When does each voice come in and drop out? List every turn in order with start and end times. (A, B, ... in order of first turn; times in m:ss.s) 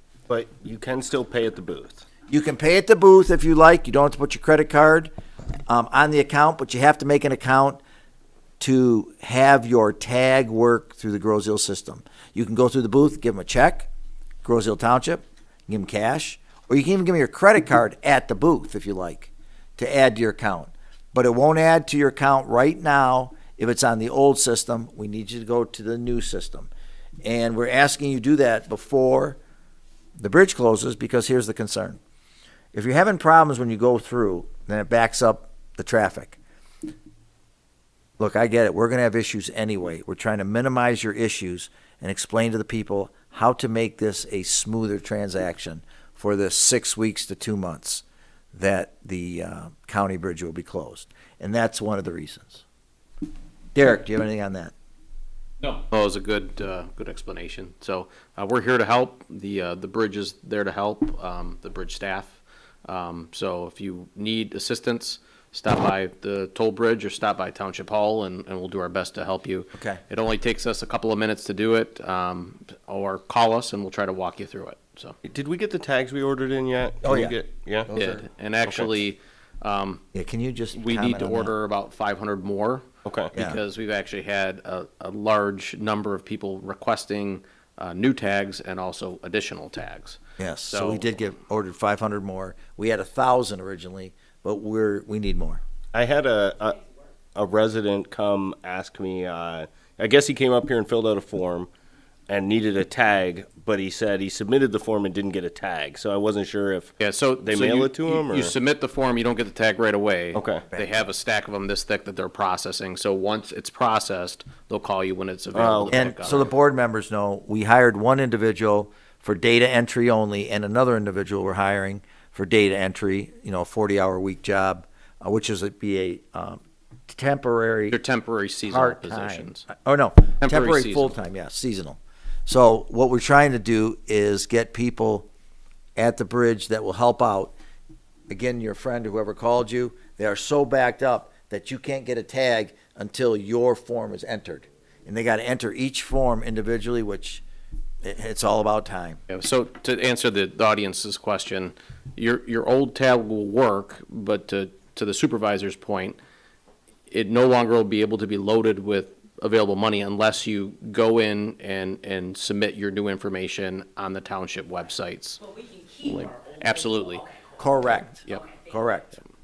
0:00.3-0:02.0 A
0:02.3-0:05.1 B
0:05.7-0:07.8 B
0:08.6-0:13.9 B
0:14.4-0:26.7 B
0:27.2-0:29.4 B
0:30.2-0:32.0 B
0:32.7-0:36.4 B
0:38.2-0:52.6 B
0:53.7-0:54.7 B
0:55.6-1:15.2 C
1:09.8-1:10.0 B
1:15.2-1:17.9 A
1:17.0-1:17.4 B
1:17.9-1:18.2 B
1:17.9-1:20.0 C
1:18.6-1:18.9 A
1:20.1-1:21.5 B
1:20.7-1:31.1 C
1:23.0-1:23.3 A
1:23.3-1:23.6 B
1:30.4-1:35.6 B
1:35.9-1:36.8 A
1:37.3-1:41.7 A
1:42.3-1:48.5 A
1:47.0-1:56.5 C
1:50.3-1:50.6 A
1:55.5-1:56.0 A
1:55.9-2:08.0 B
2:07.9-2:09.7 C
2:08.7-2:15.3 B
2:10.4-2:11.1 C
2:16.0-2:17.5 B
2:18.3-2:27.4 B
2:28.0-2:29.2 B
2:29.3-2:36.2 C
2:37.1-2:45.4 C
2:45.4-2:49.0 D
2:46.0-2:47.2 C
2:47.6-2:49.1 B